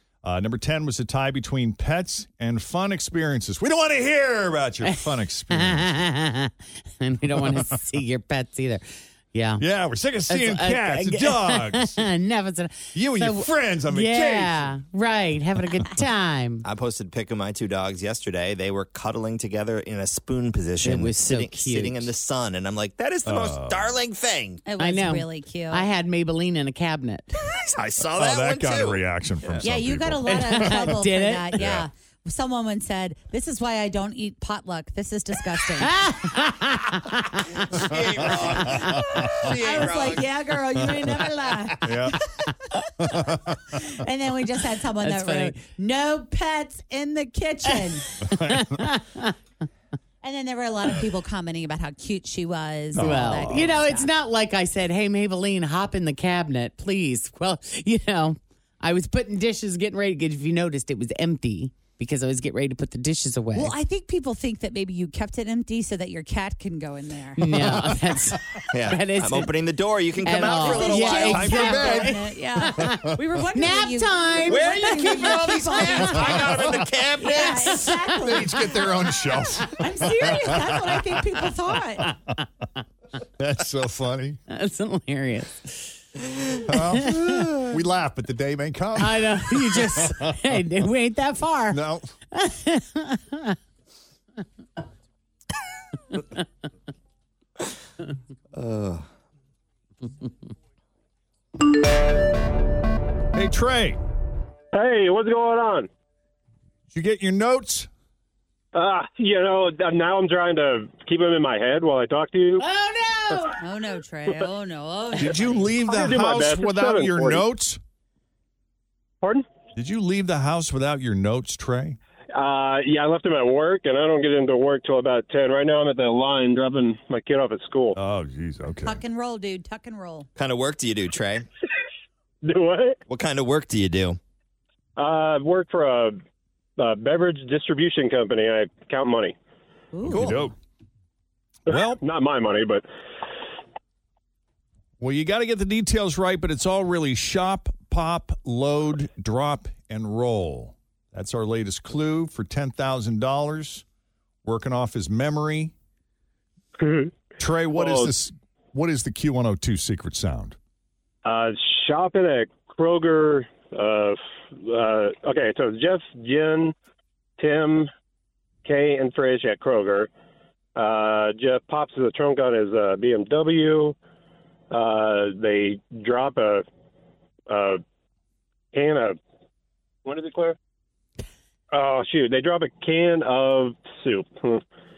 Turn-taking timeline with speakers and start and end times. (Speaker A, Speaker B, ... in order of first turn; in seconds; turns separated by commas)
Speaker A: 0.2-6.0, Speaker B: 4.8-9.6, Speaker A: 7.4-7.8, Speaker A: 9.6-12.1, Speaker B: 10.3-16.6, Speaker A: 12.9-14.8, Speaker C: 16.6-24.6, Speaker B: 20.8-22.1, Speaker A: 23.2-23.9, Speaker D: 24.6-25.9, Speaker B: 24.8-27.3, Speaker C: 27.5-29.6, Speaker A: 28.2-30.9, Speaker D: 29.6-36.0, Speaker B: 30.3-31.6, Speaker A: 31.6-31.9, Speaker B: 35.8-37.5, Speaker C: 37.5-40.3, Speaker A: 38.2-39.5, Speaker D: 39.4-42.4, Speaker A: 41.8-42.2, Speaker A: 43.0-43.8, Speaker D: 43.7-48.1, Speaker B: 45.0-45.6, Speaker B: 47.7-49.3, Speaker A: 48.2-48.9, Speaker D: 50.2-54.1, Speaker A: 53.0-53.8, Speaker B: 53.0-63.7, Speaker D: 63.5-67.5, Speaker B: 67.4-69.5, Speaker C: 68.7-72.0, Speaker B: 70.2-76.4, Speaker D: 70.5-76.4, Speaker A: 71.2-72.2, Speaker A: 72.8-73.1, Speaker C: 74.5-77.9, Speaker D: 77.2-78.7, Speaker B: 77.4-77.9, Speaker A: 78.1-81.2, Speaker D: 79.7-82.1, Speaker A: 82.0-82.3, Speaker A: 83.4-84.4, Speaker B: 84.5-86.0, Speaker A: 86.7-90.6, Speaker B: 86.8-87.5, Speaker B: 89.0-91.8, Speaker A: 91.7-92.1, Speaker B: 92.3-93.6, Speaker C: 98.5-99.1, Speaker A: 103.3-104.0, Speaker E: 104.7-105.9, Speaker A: 106.9-107.9, Speaker E: 108.7-112.6, Speaker B: 112.6-113.6, Speaker D: 113.6-115.7, Speaker A: 115.2-117.8, Speaker E: 115.9-117.4, Speaker A: 119.8-122.0, Speaker E: 122.3-128.0, Speaker A: 128.0-129.0, Speaker D: 128.8-130.3, Speaker C: 130.4-131.5, Speaker E: 132.4-133.0, Speaker C: 133.1-134.2, Speaker E: 135.0-136.2, Speaker E: 136.8-139.3, Speaker D: 139.9-140.4, Speaker A: 140.1-140.5, Speaker C: 140.1-140.5, Speaker A: 141.7-142.0, Speaker E: 141.7-142.8, Speaker A: 145.0-153.8, Speaker A: 154.4-155.7, Speaker E: 156.8-157.2, Speaker A: 157.4-160.6, Speaker E: 157.7-158.1, Speaker E: 161.2-166.7, Speaker E: 167.4-167.9, Speaker E: 168.7-170.1, Speaker E: 170.8-174.0, Speaker E: 174.7-176.7, Speaker E: 177.5-177.8, Speaker E: 178.7-179.2, Speaker E: 180.1-180.6, Speaker E: 181.7-184.6